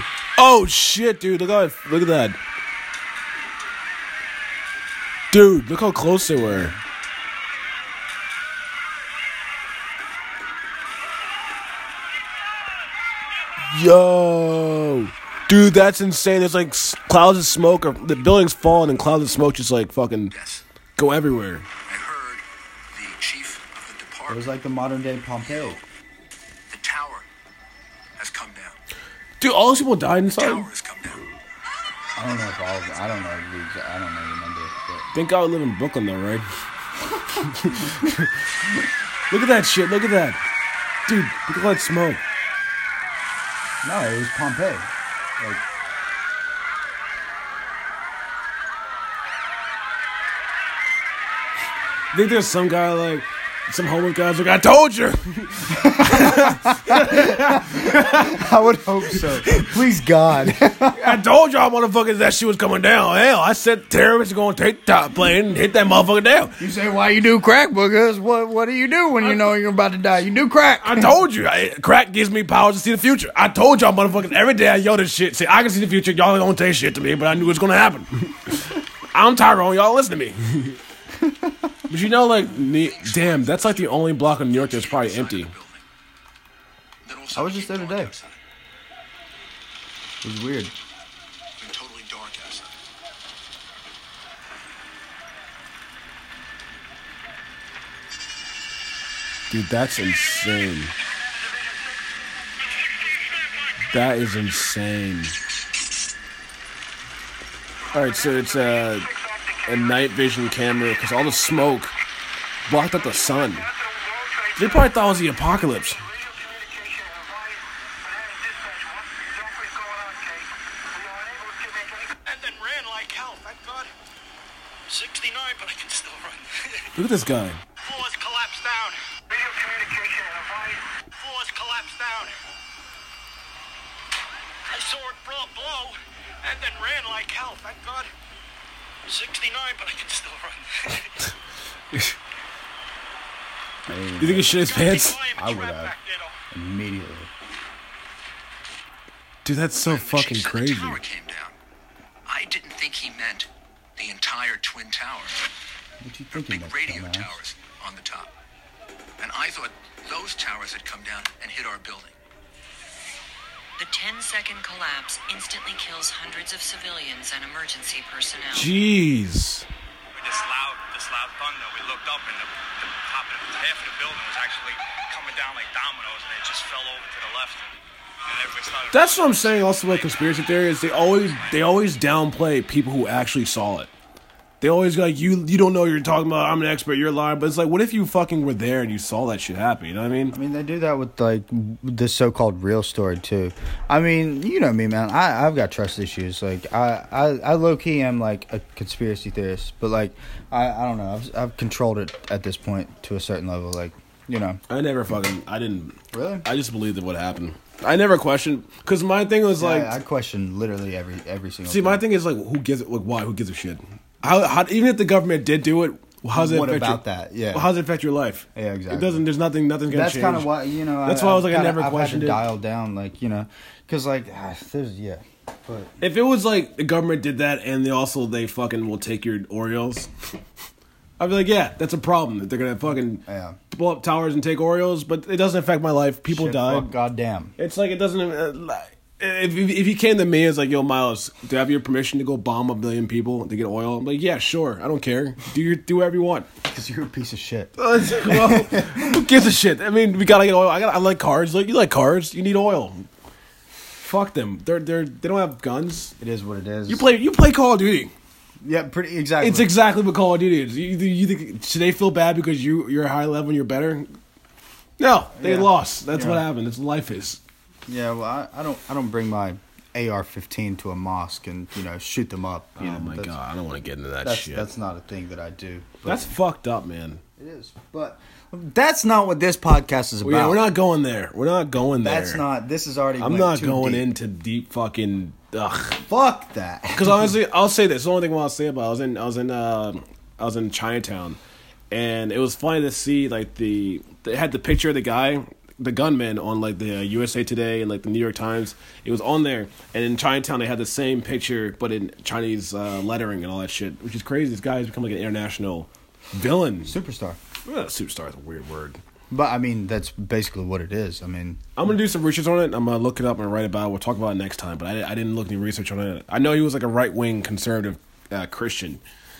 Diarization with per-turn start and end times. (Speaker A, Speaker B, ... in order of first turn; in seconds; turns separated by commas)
Speaker A: 0.3-2.4, Speaker A: 5.3-6.7, Speaker B: 6.4-6.8, Speaker A: 13.7-20.3, Speaker C: 20.3-20.6, Speaker A: 21.0-21.6, Speaker C: 21.9-24.4, Speaker B: 24.3-25.8, Speaker C: 25.5-25.8, Speaker C: 26.7-27.2, Speaker C: 28.2-28.8, Speaker A: 29.4-30.7, Speaker C: 30.3-31.2, Speaker B: 32.1-35.0, Speaker A: 35.1-36.5, Speaker A: 37.4-38.4, Speaker A: 39.3-40.4, Speaker A: 41.1-42.2, Speaker B: 43.8-44.9, Speaker B: 45.4-45.6, Speaker A: 52.1-58.4, Speaker B: 55.7-61.2, Speaker A: 59.1-59.7, Speaker A: 60.7-66.6, Speaker B: 66.6-71.2, Speaker A: 70.8-80.8, Speaker B: 81.2-81.7, Speaker A: 81.9-85.5, Speaker C: 82.8-85.8, Speaker C: 87.0-88.4, Speaker B: 87.3-88.1, Speaker B: 90.2-90.7, Speaker C: 91.6-92.7, Speaker A: 99.5-100.9, Speaker A: 103.9-105.3, Speaker A: 107.9-109.1, Speaker A: 109.7-111.9, Speaker A: 112.7-113.7, Speaker A: 114.6-116.0, Speaker D: 122.2-123.9, Speaker D: 124.9-126.3, Speaker A: 126.9-127.6, Speaker D: 127.8-128.9, Speaker D: 131.2-132.3, Speaker D: 134.7-138.1, Speaker D: 139.1-140.6, Speaker B: 143.9-144.7, Speaker A: 144.2-145.2, Speaker D: 144.7-146.3, Speaker B: 145.3-145.9, Speaker B: 146.5-147.3, Speaker A: 149.4-151.0, Speaker C: 149.7-151.5, Speaker C: 152.3-155.5, Speaker B: 156.0-157.3, Speaker C: 156.3-158.3, Speaker C: 159.2-162.1, Speaker E: 163.8-168.7, Speaker A: 168.5-169.7, Speaker A: 178.9-183.9, Speaker A: 184.6-190.3, Speaker B: 190.3-204.6, Speaker A: 204.7-209.9, Speaker B: 206.1-206.4, Speaker B: 209.6-212.0, Speaker A: 211.7-222.4, Speaker B: 216.3-217.7, Speaker B: 218.5-219.2, Speaker B: 219.9-225.9, Speaker A: 226.0-230.1, Speaker A: 231.2-236.9, Speaker B: 233.2-233.6, Speaker B: 236.3-237.5, Speaker A: 237.6-246.5, Speaker B: 246.6-249.3, Speaker A: 247.8-253.1, Speaker A: 253.9-256.1, Speaker B: 256.2-257.1, Speaker A: 256.9-258.1, Speaker B: 258.6-259.7, Speaker A: 259.4-264.1, Speaker A: 265.0-267.4, Speaker B: 265.4-266.4, Speaker B: 267.9-273.4, Speaker A: 272.8-274.7, Speaker B: 274.2-276.3, Speaker A: 276.0-277.2, Speaker B: 277.4-280.6, Speaker A: 280.2-282.4, Speaker B: 282.0-284.1, Speaker A: 283.2-286.0, Speaker B: 286.0-287.3, Speaker A: 286.9-291.4, Speaker A: 291.9-307.0, Speaker B: 306.8-307.4, Speaker A: 307.6-309.0, Speaker B: 309.3-311.6, Speaker A: 311.8-319.0